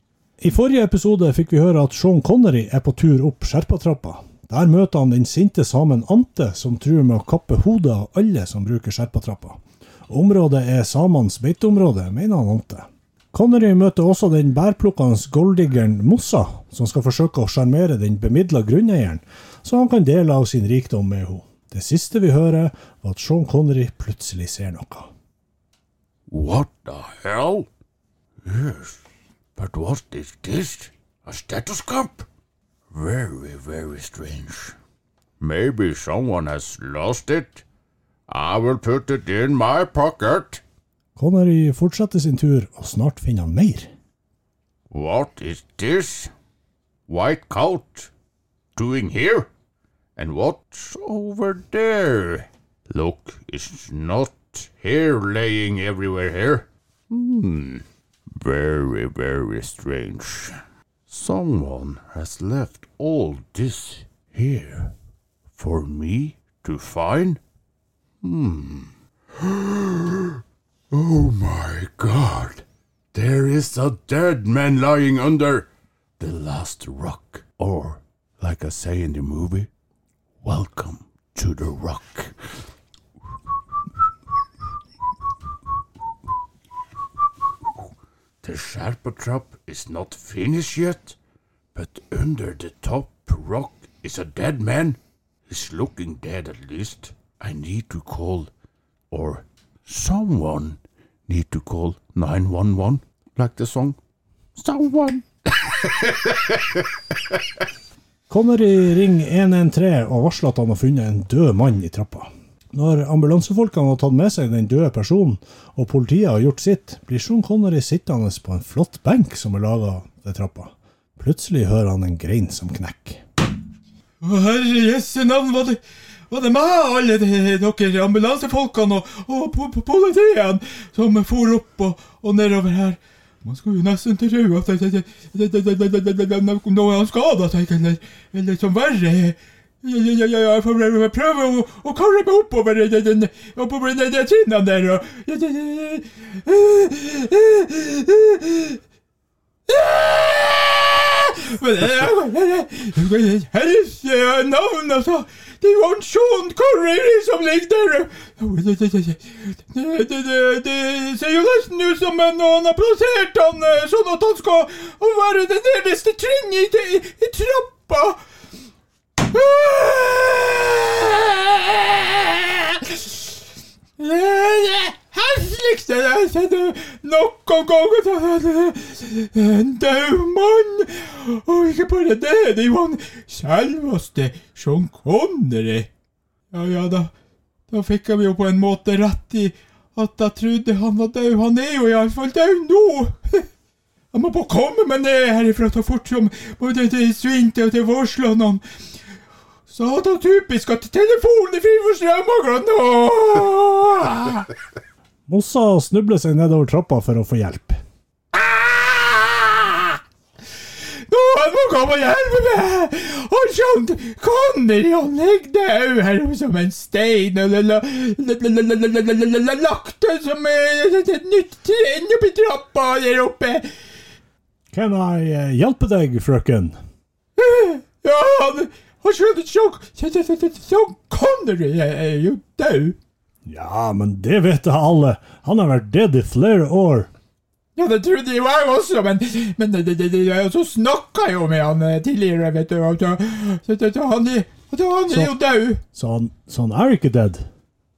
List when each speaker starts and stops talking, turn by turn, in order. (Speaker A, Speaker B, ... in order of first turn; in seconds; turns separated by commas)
Speaker A: 0.4-25.1, Speaker B: 26.3-27.7, Speaker B: 28.4-29.0, Speaker B: 29.6-32.3, Speaker B: 32.9-34.7, Speaker B: 35.4-37.6, Speaker B: 38.3-40.6, Speaker A: 41.2-43.9, Speaker B: 44.9-46.3, Speaker B: 47.1-48.1, Speaker B: 48.8-49.5, Speaker B: 50.2-57.8, Speaker B: 58.4-60.6, Speaker B: 61.1-64.9, Speaker B: 65.6-67.4, Speaker B: 68.2-70.4, Speaker B: 70.9-75.7, Speaker B: 76.2-79.7, Speaker B: 80.4-82.3, Speaker B: 88.4-91.2, Speaker B: 91.8-95.0, Speaker B: 95.5-98.5, Speaker B: 99.1-100.8, Speaker B: 101.3-104.0, Speaker B: 104.6-106.5, Speaker A: 108.3-123.2, Speaker C: 124.2-148.8, Speaker C: 149.7-168.2, Speaker C: 169.2-173.2, Speaker C: 174.0-185.9, Speaker C: 186.5-187.1, Speaker C: 187.7-193.5, Speaker C: 194.1-198.6, Speaker C: 199.7-204.5, Speaker A: 205.3-207.8, Speaker C: 208.3-210.0, Speaker C: 211.1-223.7, Speaker A: 224.7-226.8, Speaker C: 227.4-233.0, Speaker A: 233.5-237.1, Speaker C: 237.8-245.8, Speaker A: 245.1-245.4, Speaker A: 245.9-247.5